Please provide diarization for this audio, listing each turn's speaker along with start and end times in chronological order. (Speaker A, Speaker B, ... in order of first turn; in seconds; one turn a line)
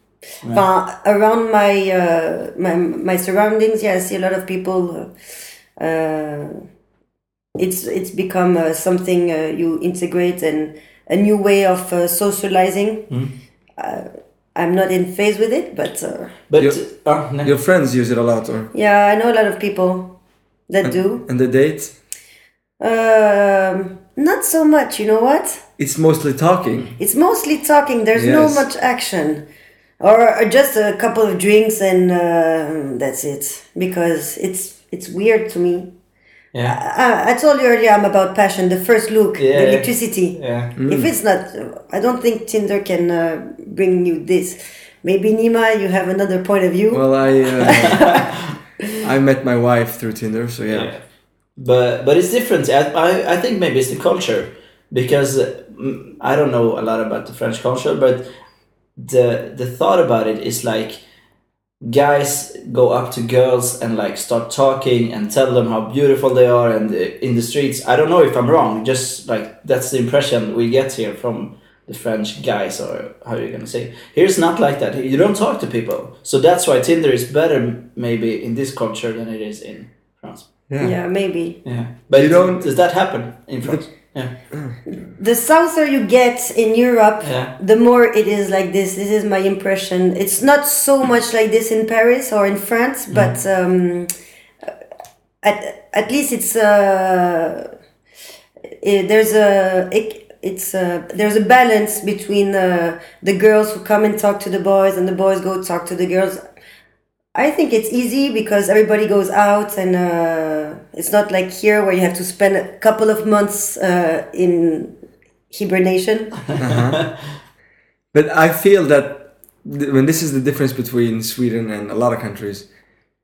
Speaker A: 0.5-5.1
Speaker A: 5.8-6.6
Speaker A: 7.6-13.1
Speaker A: 13.8-16.3
Speaker B: 16.5-17.5
Speaker C: 17.4-18.7
Speaker A: 18.7-20.1
Speaker A: 20.7-21.2
Speaker C: 20.8-21.9
Speaker A: 22.8-25.6
Speaker C: 25.8-26.9
Speaker A: 27.0-29.4
Speaker C: 28.1-28.7
Speaker A: 30.0-35.9
Speaker B: 36.5-36.8
Speaker A: 36.7-48.3
Speaker B: 39.4-40.7
Speaker C: 40.8-41.1
Speaker C: 46.9-48.0
Speaker B: 47.8-48.5
Speaker C: 49.0-50.9
Speaker B: 50.7-51.0
Speaker B: 51.6-58.3
Speaker B: 59.0-61.0
Speaker B: 61.8-80.5
Speaker C: 80.7-81.0
Speaker A: 80.8-81.6
Speaker B: 81.7-84.3
Speaker C: 82.1-82.7
Speaker C: 84.5-84.8
Speaker A: 84.9-94.1
Speaker B: 87.2-87.5
Speaker A: 95.4-97.7
Speaker A: 98.8-106.4
Speaker A: 107.3-114.9
Speaker A: 115.5-116.4
Speaker B: 116.6-117.1
Speaker C: 116.6-117.0
Speaker C: 118.1-122.7